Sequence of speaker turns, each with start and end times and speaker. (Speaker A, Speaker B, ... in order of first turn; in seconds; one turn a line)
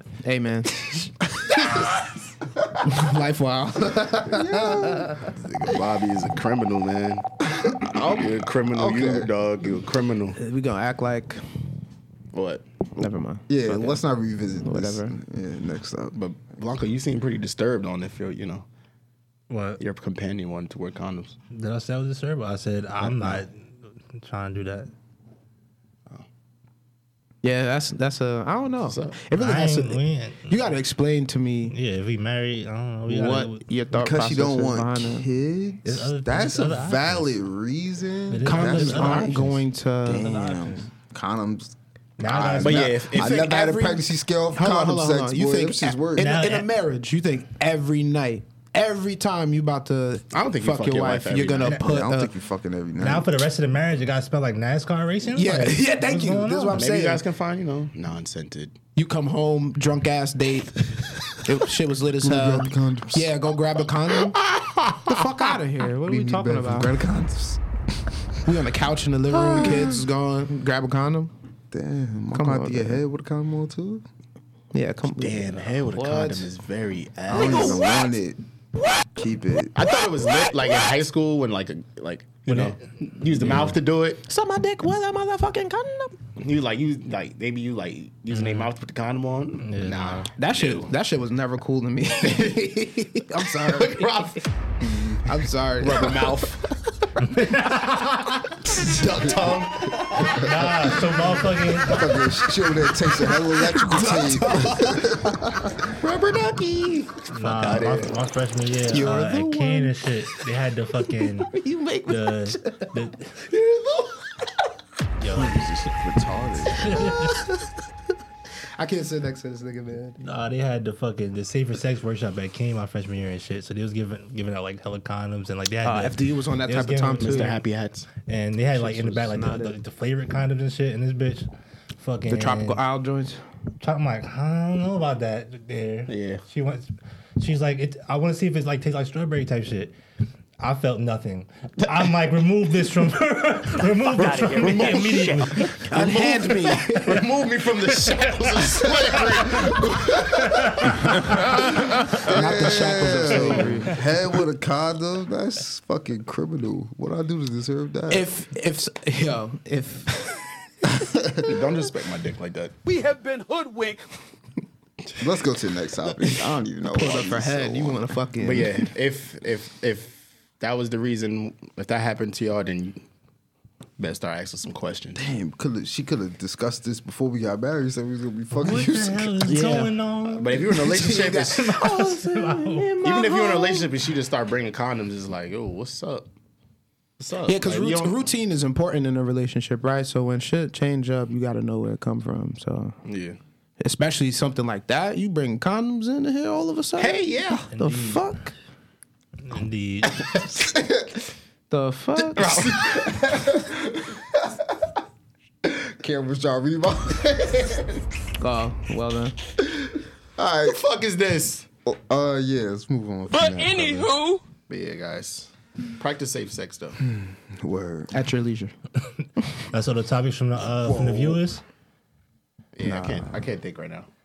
Speaker A: 0.2-1.1
Speaker A: 2.8-5.2
Speaker B: 4.2-5.7
Speaker C: 5.4-10.4
Speaker B: 7.6-8.0
Speaker B: 8.7-9.3
Speaker A: 10.3-11.4
Speaker C: 12.3-12.6
Speaker A: 13.0-14.0
Speaker B: 13.5-16.1
Speaker A: 14.6-15.2
Speaker C: 16.1-18.6
Speaker D: 19.5-19.8
Speaker C: 19.8-21.4
Speaker D: 21.5-24.9
Speaker B: 23.0-23.4
Speaker A: 27.4-31.8
Speaker C: 28.9-29.2
Speaker D: 29.3-30.6
Speaker D: 31.7-33.6
Speaker A: 33.1-35.2
Speaker B: 33.9-46.5
Speaker D: 35.8-37.3
Speaker D: 38.3-39.5
Speaker A: 38.4-40.4
Speaker D: 40.2-40.9
Speaker D: 42.2-43.0
Speaker C: 42.6-43.4
Speaker A: 43.1-52.3
Speaker D: 46.1-46.7
Speaker C: 50.3-51.8
Speaker B: 51.8-53.3
Speaker D: 53.0-56.8
Speaker A: 55.3-57.2
Speaker C: 56.7-58.7
Speaker A: 58.9-64.4
Speaker B: 62.2-63.3
Speaker C: 64.4-65.0
Speaker A: 65.0-67.0
Speaker B: 66.0-67.6
Speaker A: 68.4-71.3
Speaker B: 69.3-70.0
Speaker B: 71.7-74.0
Speaker A: 72.3-73.0
Speaker A: 74.7-76.5
Speaker C: 75.2-77.8
Speaker B: 77.3-78.4
Speaker B: 79.1-79.7
Speaker C: 79.8-84.2
Speaker D: 82.5-82.8
Speaker D: 83.3-83.8
Speaker A: 84.3-86.2
Speaker C: 86.4-90.9
Speaker D: 88.3-88.7
Speaker D: 89.6-90.3
Speaker A: 90.4-94.1
Speaker C: 92.2-92.7
Speaker C: 93.6-94.5
Speaker B: 94.8-95.2
Speaker A: 95.2-96.4
Speaker C: 95.8-96.7
Speaker D: 97.2-98.7
Speaker C: 98.7-100.4
Speaker B: 99.2-99.4
Speaker D: 100.2-102.2
Speaker B: 100.3-100.9
Speaker B: 101.9-105.9
Speaker A: 103.2-105.5
Speaker C: 105.9-108.2
Speaker D: 107.3-111.5
Speaker B: 108.9-109.4
Speaker A: 108.9-110.0
Speaker A: 111.2-113.0
Speaker D: 112.1-113.3
Speaker D: 115.2-115.6
Speaker B: 115.2-117.2
Speaker D: 116.8-117.3
Speaker A: 116.8-117.7
Speaker A: 118.8-120.2
Speaker D: 120.2-127.6
Speaker A: 125.8-127.6
Speaker C: 127.2-128.1
Speaker D: 128.2-132.8
Speaker A: 128.7-129.8
Speaker A: 132.3-133.4
Speaker D: 133.8-139.9
Speaker C: 136.1-136.4
Speaker D: 140.6-145.8
Speaker C: 144.0-150.6
Speaker A: 145.6-147.2
Speaker D: 148.1-151.5
Speaker B: 149.5-158.3
Speaker A: 152.2-154.0
Speaker A: 158.1-160.4
Speaker B: 160.9-161.6
Speaker C: 161.4-162.8
Speaker E: 162.8-164.0
Speaker B: 165.2-168.0
Speaker A: 166.9-168.9
Speaker C: 168.4-173.0
Speaker C: 174.0-175.3
Speaker B: 175.1-179.6
Speaker D: 178.5-180.8
Speaker A: 179.4-180.0
Speaker C: 180.3-181.7
Speaker A: 180.5-183.9
Speaker D: 181.4-183.0
Speaker C: 183.0-186.2
Speaker C: 187.2-188.2
Speaker A: 187.5-192.9
Speaker C: 193.0-193.4
Speaker A: 193.8-198.5
Speaker C: 197.0-197.7
Speaker D: 197.7-198.3
Speaker D: 199.4-200.5
Speaker A: 201.7-202.7
Speaker C: 202.3-203.6
Speaker B: 202.9-204.3
Speaker B: 205.6-207.9
Speaker A: 208.4-209.3
Speaker B: 209.6-210.8
Speaker C: 210.6-211.7
Speaker B: 211.8-214.1
Speaker E: 213.3-214.4
Speaker C: 214.7-217.0
Speaker B: 217.0-218.1
Speaker A: 218.1-218.7
Speaker D: 219.7-221.6
Speaker B: 220.7-221.4
Speaker C: 222.7-224.1
Speaker B: 222.8-223.4